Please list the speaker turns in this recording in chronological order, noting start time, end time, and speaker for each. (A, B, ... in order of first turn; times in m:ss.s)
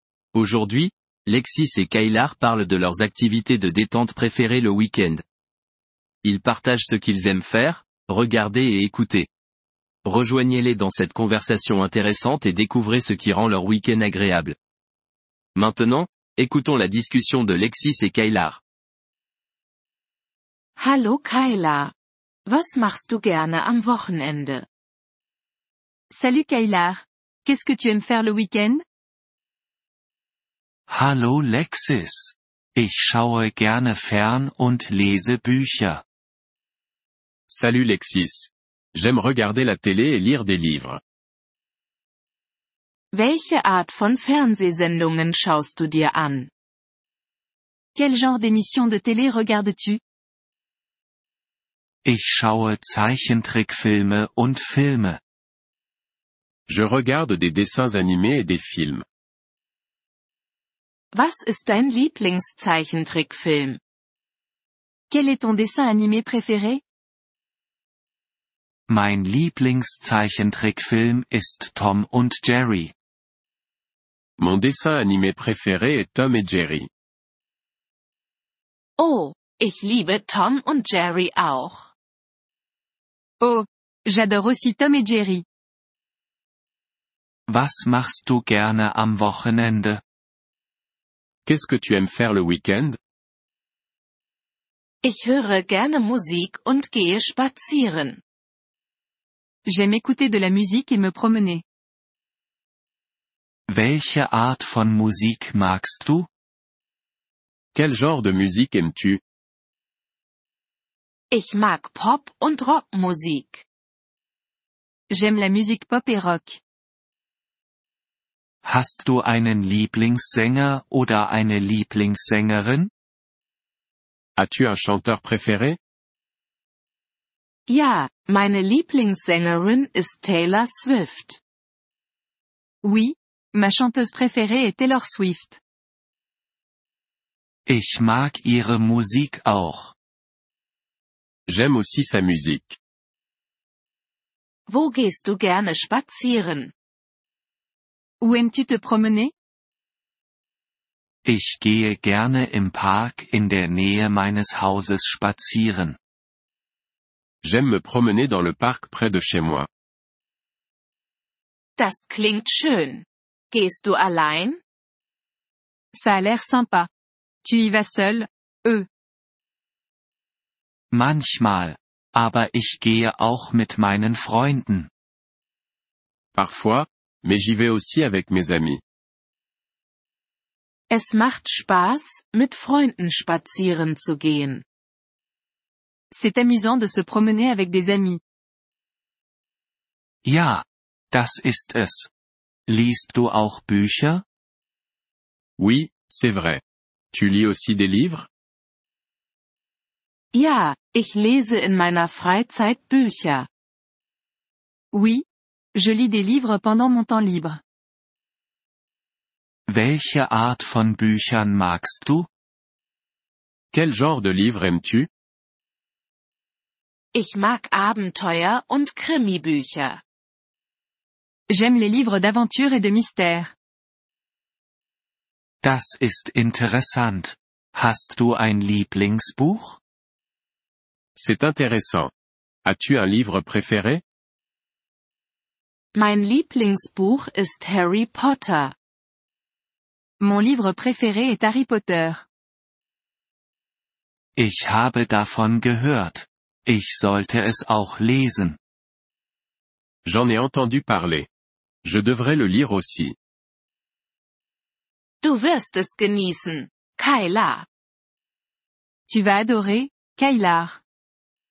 0:00.3-0:05.2 A
0:06.2-0:09.3 A
0:10.0-0:14.6 A
0:15.5-0:18.6 A
0:20.8-0:21.9 B
0:22.5-0:24.6 B
0:26.1-0:28.8 C
0:30.9-0:36.0 D
0:37.5-0:41.0 E
0:43.1-0:46.5 B
0:47.9-0:50.0 C
0:52.0-0:55.2 D
0:56.7-0:59.0 E
1:01.1-1:03.8 B
1:05.1-1:06.8 C
1:08.9-1:12.9 D
1:14.4-1:16.9 E
1:19.0-1:21.9 B
1:23.4-1:25.4 C
1:27.5-1:30.0 D
1:31.4-1:33.0 E
1:35.0-1:38.2 B
1:39.6-1:41.6 C
1:43.7-1:46.3 D
1:47.7-1:49.2 E
1:51.3-1:53.6 B
1:55.1-1:56.6 C
1:58.6-2:02.9 D
2:04.4-2:05.8 E
2:07.7-2:11.4 B
2:12.8-2:15.6 C
2:17.7-2:19.9 D
2:21.5-2:22.8 E
2:24.7-2:26.7 B
2:28.2-2:29.3 C
2:31.2-2:36.0 D
2:37.4-2:39.7 E
2:41.8-2:44.6 B
2:45.9-2:46.9 C
2:47.4-2:48.9 C
2:50.9-2:54.9 D
2:56.3-2:58.8 E
3:00.9-3:04.6 B
3:06.1-3:08.2 C
3:10.2-3:12.1 D
3:12.7-3:14.2 D
3:15.6-3:16.6 E
3:17.1-3:18.3 E
3:20.3-3:23.5 B
3:24.9-3:27.6 C
3:29.7-3:32.3 D
3:33.7-3:35.1 E
3:37.1-3:40.0 B
3:41.5-3:43.5 C
3:45.6-3:49.8 D
3:51.2-3:52.1 E
3:52.6-3:54.0 E
3:55.9-3:58.7 B
4:00.2-4:02.2 C
4:04.4-4:08.6 D
4:10.0-4:11.3 E
4:11.8-4:13.2 E
4:15.2-4:17.6 B
4:19.1-4:20.8 C